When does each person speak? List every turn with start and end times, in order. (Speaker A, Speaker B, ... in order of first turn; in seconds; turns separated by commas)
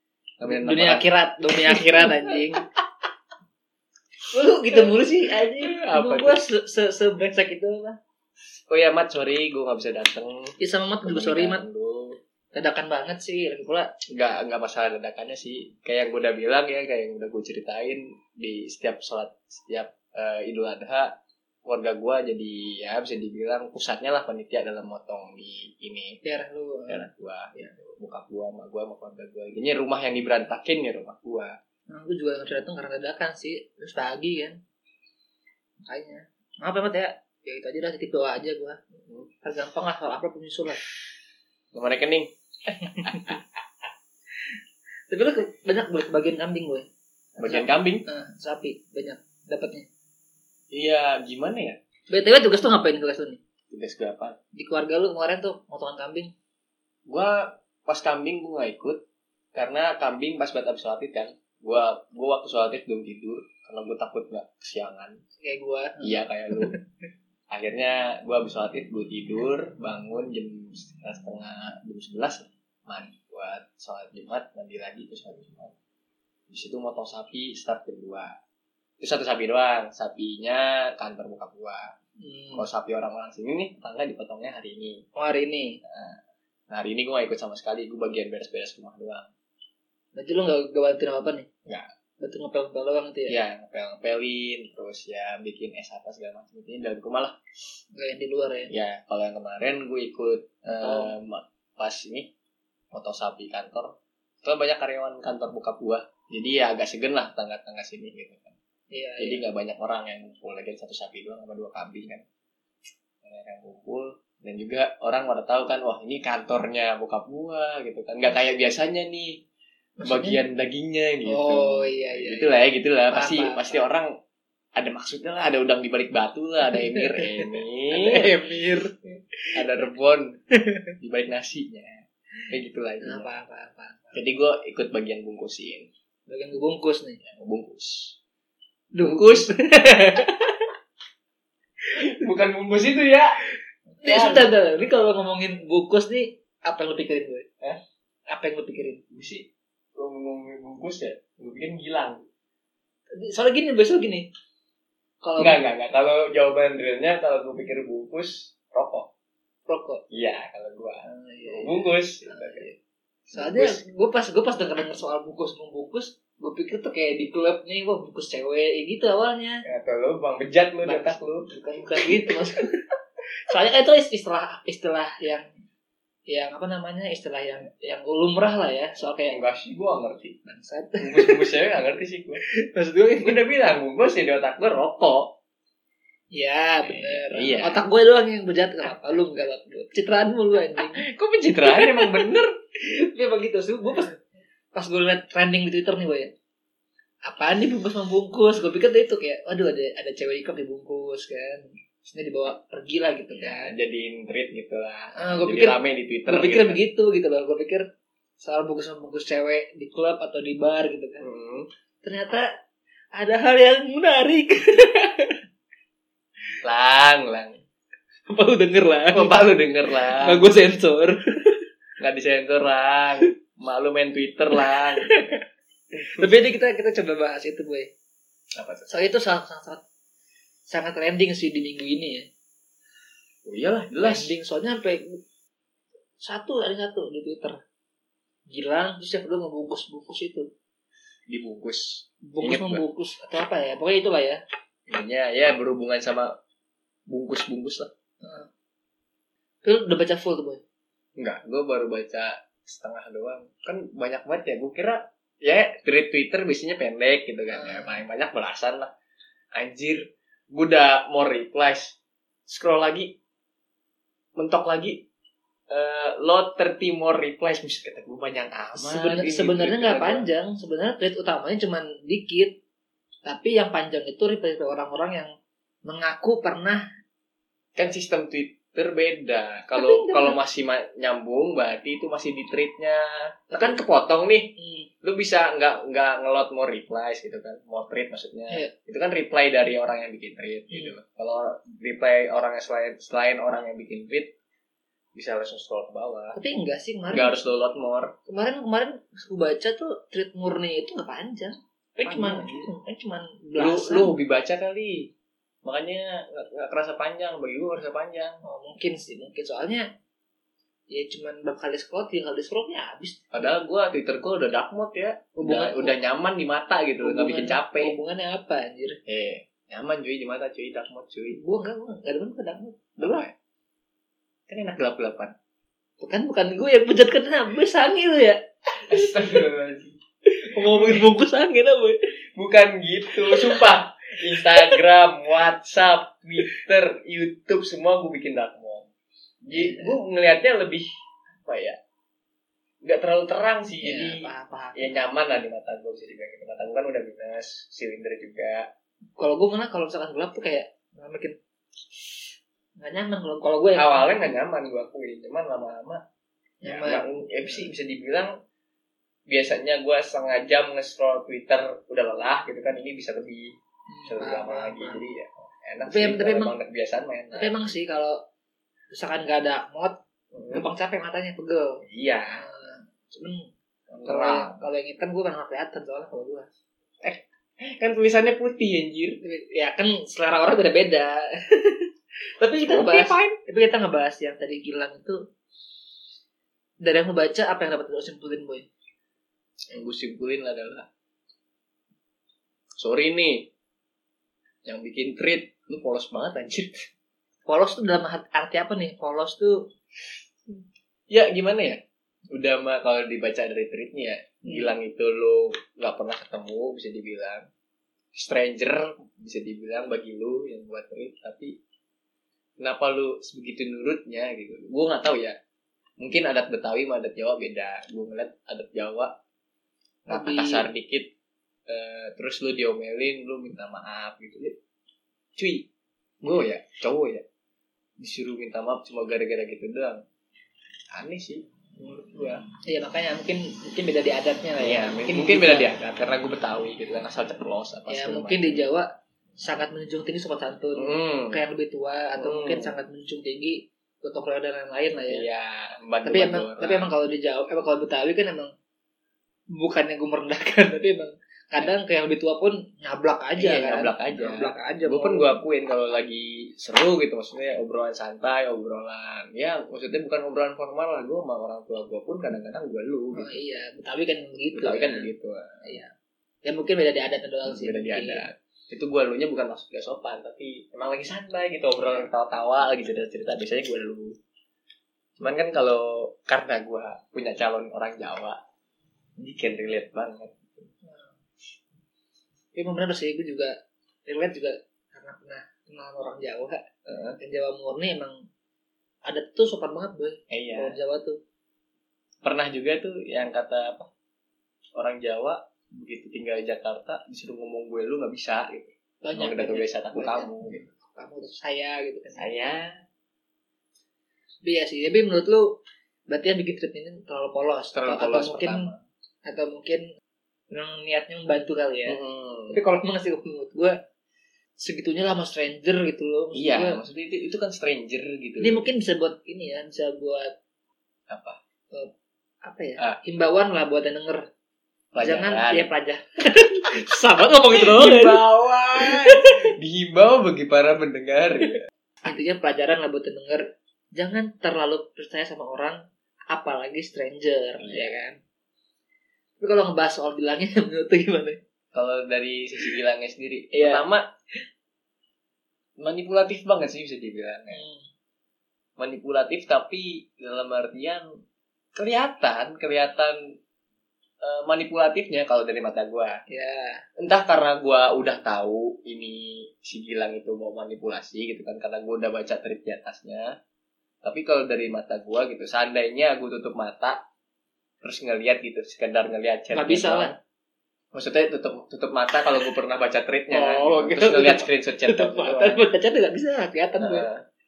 Speaker A: 0.4-2.6, Speaker B: 0.4-2.6, Speaker B: 4.3-8.0, Speaker A: 4.7-6.4, Speaker A: 8.7-12.2, Speaker B: 10.6-11.6, Speaker B: 12.5-13.9, Speaker A: 14.1-21.1, Speaker A: 21.6-26.2, Speaker B: 26.2-27.1, Speaker A: 26.9-31.5, Speaker B: 31.9-34.6, Speaker B: 35.8-38.8, Speaker A: 39.0-39.3, Speaker B: 39.4-40.8, Speaker A: 41.7-42.3, Speaker B: 42.8-43.4, Speaker A: 43.0-43.4, Speaker B: 45.1-46.9, Speaker A: 47.4-48.0, Speaker B: 47.4-49.9, Speaker A: 50.7-51.8, Speaker B: 52.1-53.4, Speaker A: 53.7-54.4, Speaker B: 54.5-56.3, Speaker A: 57.1-59.0, Speaker A: 59.5-65.2, Speaker B: 65.4-66.8, Speaker A: 66.0-66.7, Speaker A: 67.5-75.7, Speaker A: 76.5-78.3, Speaker A: 79.0-81.9, Speaker B: 82.2-82.7, Speaker A: 82.5-85.0, Speaker B: 85.2-85.8, Speaker A: 85.8-86.2, Speaker A: 86.7-89.3, Speaker B: 90.1-91.5, Speaker B: 92.2-93.4, Speaker A: 93.3-97.4, Speaker B: 97.9-98.7, Speaker A: 98.7-102.3, Speaker B: 100.8-101.1, Speaker A: 102.9-108.5, Speaker B: 108.9-109.4, Speaker A: 109.2-112.2, Speaker A: 113.2-119.4, Speaker B: 120.0-120.4, Speaker A: 120.0-124.1, Speaker B: 121.2-122.5, Speaker B: 123.1-123.8, Speaker A: 124.8-128.4, Speaker B: 126.7-129.5, Speaker A: 129.5-130.4, Speaker B: 130.6-130.9, Speaker A: 131.0-133.3, Speaker B: 133.0-134.2, Speaker A: 134.1-135.9, Speaker B: 136.3-137.2, Speaker A: 137.2-138.2, Speaker B: 138.9-140.7, Speaker A: 139.0-139.5, Speaker A: 141.9-143.4, Speaker B: 144.0-147.5, Speaker A: 144.0-144.5, Speaker B: 148.3-149.0, Speaker A: 149.1-152.2, Speaker B: 153.2-154.3, Speaker B: 155.2-155.6, Speaker A: 155.4-159.1, Speaker B: 159.7-160.0, Speaker A: 160.1-162.7, Speaker B: 161.0-162.8, Speaker A: 163.3-163.8, Speaker B: 163.3-169.6, Speaker A: 169.6-171.5, Speaker B: 170.8-172.7, Speaker B: 173.5-175.4, Speaker B: 176.3-179.4, Speaker A: 179.3-180.4, Speaker B: 180.4-181.5, Speaker A: 181.0-182.4, Speaker B: 182.5-183.4, Speaker A: 183.2-185.3, Speaker B: 186.3-191.0, Speaker A: 186.8-187.8, Speaker A: 190.8-192.5, Speaker B: 191.6-192.3, Speaker B: 192.8-194.2, Speaker B: 194.7-196.3, Speaker B: 197.2-203.7, Speaker A: 203.3-206.8, Speaker B: 205.2-207.8, Speaker B: 208.4-211.2, Speaker A: 211.2-211.7, Speaker B: 212.0-212.4, Speaker B: 213.1-215.4, Speaker A: 216.6-217.6, Speaker B: 218.3-221.6, Speaker A: 219.1-220.4, Speaker A: 222.0-225.1, Speaker B: 224.6-225.4, Speaker B: 225.9-227.9, Speaker A: 228.5-228.8, Speaker B: 228.9-229.8, Speaker B: 230.7-232.3, Speaker A: 233.4-234.3, Speaker B: 234.0-235.2, Speaker B: 236.2-237.6, Speaker B: 238.5-240.5, Speaker A: 241.3-242.8, Speaker B: 242.2-244.4, Speaker A: 244.9-246.3, Speaker A: 247.1-247.9, Speaker B: 248.2-248.5, Speaker B: 249.6-250.6, Speaker A: 251.2-258.9, Speaker B: 257.5-258.0, Speaker A: 259.5-261.9, Speaker A: 262.5-263.1, Speaker A: 264.4-265.0, Speaker A: 265.7-270.3, Speaker B: 268.8-272.6, Speaker B: 273.2-275.3, Speaker B: 275.8-276.8, Speaker A: 277.8-294.3, Speaker B: 279.7-280.4, Speaker B: 284.6-284.9, Speaker A: 295.1-296.4, Speaker B: 296.3-297.3, Speaker A: 297.1-298.1, Speaker B: 298.3-304.1, Speaker A: 302.0-302.7, Speaker A: 303.6-305.1, Speaker A: 305.6-308.4, Speaker B: 308.4-309.9, Speaker B: 310.9-313.5, Speaker A: 313.3-317.9, Speaker B: 315.4-315.9, Speaker B: 317.0-319.0, Speaker A: 319.1-321.4, Speaker B: 321.4-323.2, Speaker A: 323.0-323.3, Speaker A: 324.5-325.3, Speaker B: 326.0-329.4, Speaker A: 328.9-330.0, Speaker B: 330.3-332.0, Speaker A: 330.6-331.1, Speaker A: 332.4-338.9, Speaker B: 333.1-333.6, Speaker B: 334.3-334.8, Speaker A: 339.4-340.9, Speaker B: 339.5-339.9, Speaker A: 341.4-341.8, Speaker A: 342.8-348.7, Speaker B: 343.8-344.9, Speaker B: 349.2-351.4, Speaker B: 351.9-352.3, Speaker B: 352.8-354.1, Speaker A: 353.8-356.0, Speaker B: 356.6-357.7, Speaker A: 356.6-358.3, Speaker A: 359.3-363.5, Speaker B: 363.9-365.0, Speaker A: 364.1-367.5, Speaker B: 365.9-366.5, Speaker B: 367.3-368.2, Speaker B: 368.9-370.0, Speaker A: 370.3-370.6, Speaker B: 370.5-371.8, Speaker A: 371.8-372.4, Speaker B: 372.3-373.5, Speaker A: 373.9-374.6, Speaker B: 374.0-376.5, Speaker A: 377.0-379.2, Speaker B: 379.2-381.9, Speaker B: 382.4-385.2, Speaker A: 382.6-383.4, Speaker B: 386.8-388.7, Speaker A: 389.7-390.9, Speaker A: 392.8-393.5, Speaker A: 394.6-396.9, Speaker B: 397.4-399.7, Speaker A: 401.1-407.5, Speaker B: 404.4-404.7, Speaker A: 408.1-411.6, Speaker A: 412.6-415.4, Speaker A: 416.0-419.1, Speaker A: 420.1-421.1, Speaker B: 420.1-420.7, Speaker A: 421.7-424.6, Speaker A: 425.4-425.7, Speaker A: 426.2-427.2, Speaker A: 428.0-430.0, Speaker A: 430.9-432.4, Speaker B: 432.6-435.7, Speaker A: 434.6-438.6, Speaker B: 437.9-438.9, Speaker B: 439.4-445.3, Speaker A: 440.8-441.4, Speaker A: 442.2-442.7, Speaker A: 445.1-446.9, Speaker B: 446.0-448.5, Speaker B: 449.5-455.3, Speaker A: 453.4-463.3, Speaker B: 463.1-465.1, Speaker A: 464.5-465.6, Speaker B: 465.6-465.9, Speaker B: 466.4-468.2, Speaker A: 467.4-474.1, Speaker A: 475.2-478.4, Speaker A: 479.2-480.7, Speaker B: 480.8-481.1, Speaker B: 482.5-483.5, Speaker B: 484.1-486.6, Speaker A: 486.9-487.2, Speaker B: 487.2-488.1, Speaker B: 489.1-491.2, Speaker A: 490.3-490.8, Speaker A: 492.2-493.9, Speaker A: 494.7-500.6, Speaker B: 499.0-502.3, Speaker A: 502.2-502.8, Speaker B: 504.4-508.7, Speaker A: 507.7-508.8, Speaker B: 509.2-509.8, Speaker B: 510.5-512.0, Speaker A: 511.9-512.6, Speaker B: 512.5-513.8, Speaker B: 514.6-516.8, Speaker A: 516.3-518.6, Speaker B: 518.4-520.3, Speaker A: 521.1-521.4, Speaker B: 522.4-524.2, Speaker A: 524.9-525.7, Speaker B: 525.0-528.2, Speaker A: 527.5-531.6, Speaker B: 528.7-529.5, Speaker B: 532.0-538.2, Speaker A: 537.6-537.9, Speaker B: 539.4-541.4, Speaker A: 541.7-544.0, Speaker B: 543.5-543.9, Speaker A: 545.8-547.6, Speaker B: 547.5-547.9, Speaker A: 548.8-551.1, Speaker A: 551.7-553.3, Speaker A: 554.2-556.2, Speaker B: 556.3-556.8, Speaker A: 557.0-563.4, Speaker A: 564.0-567.0, Speaker A: 567.8-570.1, Speaker B: 569.5-570.1, Speaker A: 570.9-575.6, Speaker B: 573.3-577.1, Speaker A: 576.8-577.2